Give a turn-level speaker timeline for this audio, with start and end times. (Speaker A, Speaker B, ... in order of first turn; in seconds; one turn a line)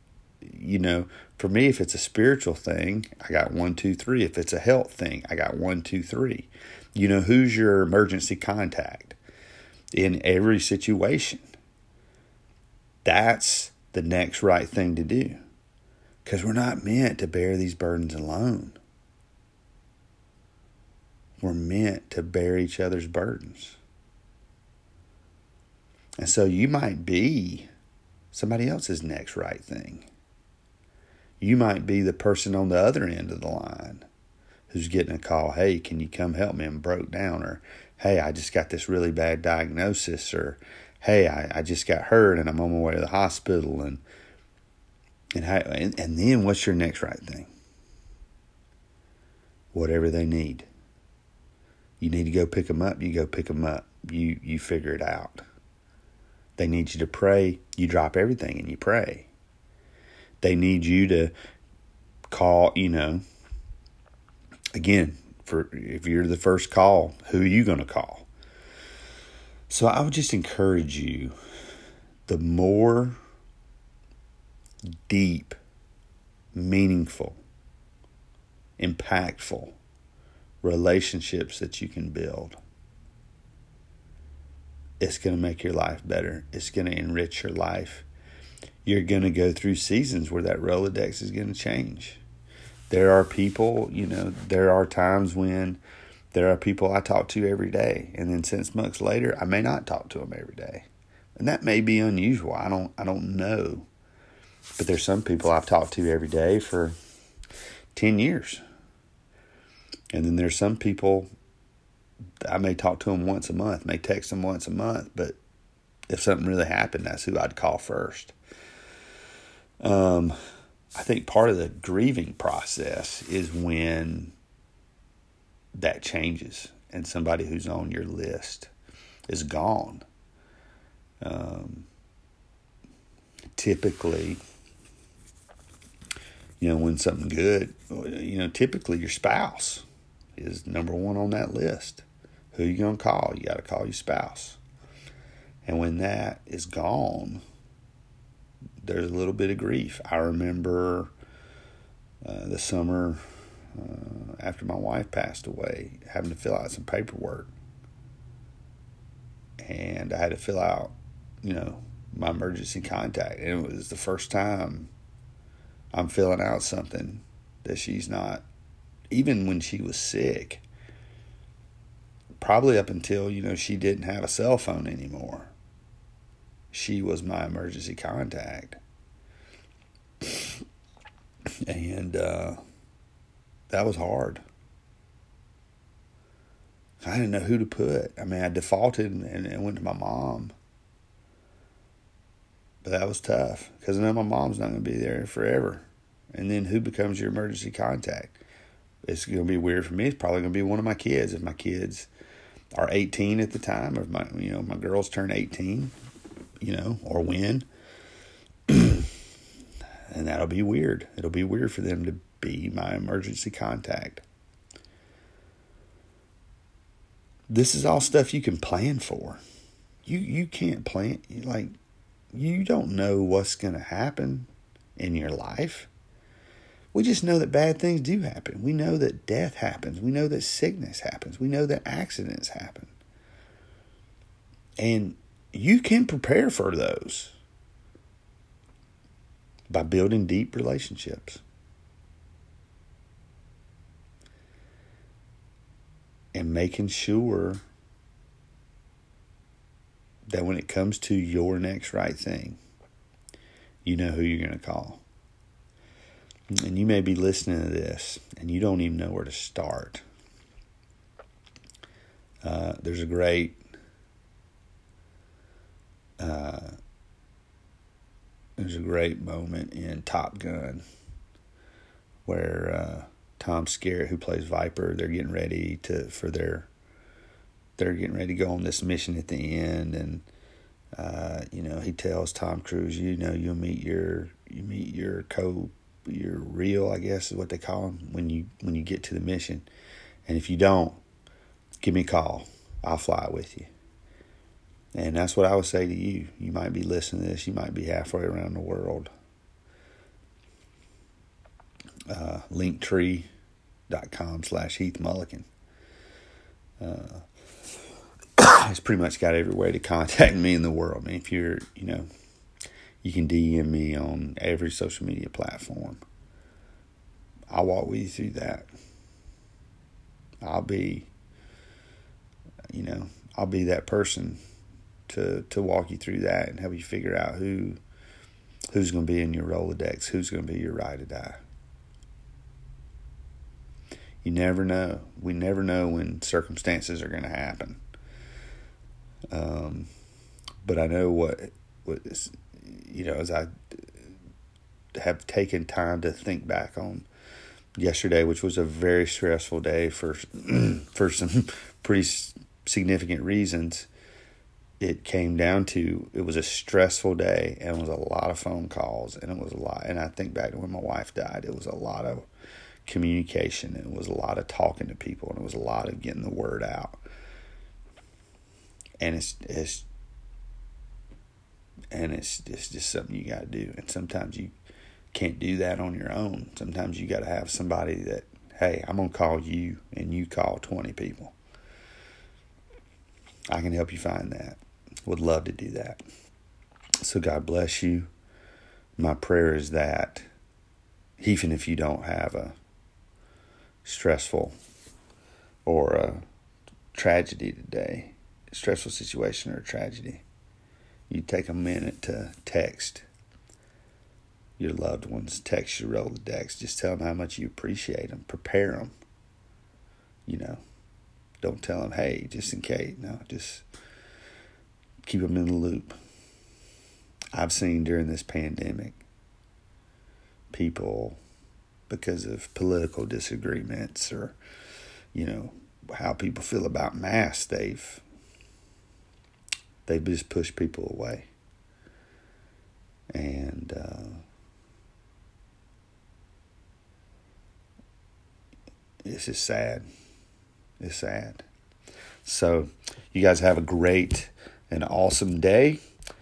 Speaker A: 0.4-9.2
Speaker A: 9.9-11.4
Speaker A: 13.0-15.4
Speaker A: 16.2-18.8
Speaker A: 21.4-23.8
Speaker A: 26.2-27.7
Speaker A: 28.3-30.1
Speaker A: 31.4-34.1
Speaker A: 34.7-44.0
Speaker A: 45.4-47.5
Speaker A: 49.7-50.7
Speaker A: 52.0-55.4
Speaker A: 56.6-59.3
Speaker A: 60.4-61.3
Speaker A: 62.3-63.2
Speaker A: 64.7-68.3
Speaker A: 69.7-71.3
Speaker A: 72.3-73.2
Speaker A: 75.1-75.6
Speaker A: 76.5-77.4
Speaker A: 78.8-79.8
Speaker A: 80.6-82.6
Speaker A: 85.0-88.1
Speaker A: 88.8-92.2
Speaker A: 92.9-95.8
Speaker A: 96.3-103.9
Speaker A: 104.8-107.0
Speaker A: 108.0-108.6
Speaker A: 110.1-111.3
Speaker A: 112.4-115.4
Speaker A: 116.1-118.3
Speaker A: 119.8-120.3
Speaker A: 120.9-124.3
Speaker A: 125.8-128.7
Speaker A: 129.3-130.0
Speaker A: 131.2-131.9
Speaker A: 133.5-134.4
Speaker A: 136.6-139.8
Speaker A: 140.4-144.6
Speaker A: 145.6-147.4
Speaker A: 148.8-151.1
Speaker A: 152.2-153.2
Speaker A: 153.7-157.5
Speaker A: 159.6-164.9
Speaker A: 165.9-168.4
Speaker A: 169.1-170.6
Speaker A: 172.4-175.5
Speaker A: 176.7-178.8
Speaker A: 180.2-180.5
Speaker A: 181.6-182.6
Speaker A: 183.7-184.4
Speaker A: 187.0-190.5
Speaker A: 192.8-198.4
Speaker A: 199.0-202.1
Speaker A: 202.7-205.9
Speaker A: 206.6-207.7
Speaker A: 208.7-209.1
Speaker A: 210.1-214.2
Speaker A: 217.5-219.4
Speaker A: 220.0-221.7
Speaker A: 222.3-225.9
Speaker A: 226.9-232.9
Speaker A: 234.8-237.3
Speaker A: 239.7-241.4
Speaker A: 246.3-247.6
Speaker A: 250.3-252.6
Speaker A: 253.8-255.0
Speaker A: 256.6-260.0
Speaker A: 262.4-263.6
Speaker A: 266.2-266.8
Speaker A: 268.6-270.8
Speaker A: 272.2-276.7
Speaker A: 277.8-280.2
Speaker A: 280.9-289.6
Speaker A: 290.2-291.0
Speaker A: 291.8-293.7
Speaker A: 294.9-299.1
Speaker A: 302.1-303.3
Speaker A: 303.9-305.5
Speaker A: 306.8-307.2
Speaker A: 308.4-312.1
Speaker A: 313.0-316.0
Speaker A: 317.5-318.7
Speaker A: 320.4-321.1
Speaker A: 322.7-324.4
Speaker A: 325.1-327.8
Speaker A: 328.7-331.4
Speaker A: 334.2-337.8
Speaker A: 339.3-339.9
Speaker A: 340.6-343.5
Speaker A: 344.9-347.1
Speaker A: 347.8-353.9
Speaker A: 354.8-362.3
Speaker A: 362.9-367.0
Speaker A: 369.0-369.9
Speaker A: 371.9-374.5
Speaker A: 375.1-381.4
Speaker A: 383.5-386.0
Speaker A: 387.0-388.1
Speaker A: 389.0-390.2
Speaker A: 391.2-392.6
Speaker A: 393.9-394.5
Speaker A: 395.6-396.2
Speaker A: 396.9-400.2
Speaker A: 401.1-403.0
Speaker A: 404.6-408.9
Speaker A: 410.2-410.6
Speaker A: 411.4-413.6
Speaker A: 415.0-415.9
Speaker A: 417.3-419.0
Speaker A: 420.5-421.2
Speaker A: 421.9-424.4
Speaker A: 425.1-428.0
Speaker A: 429.9-431.3
Speaker A: 433.1-434.2
Speaker A: 439.0-439.9
Speaker A: 440.8-441.4
Speaker A: 442.2-445.8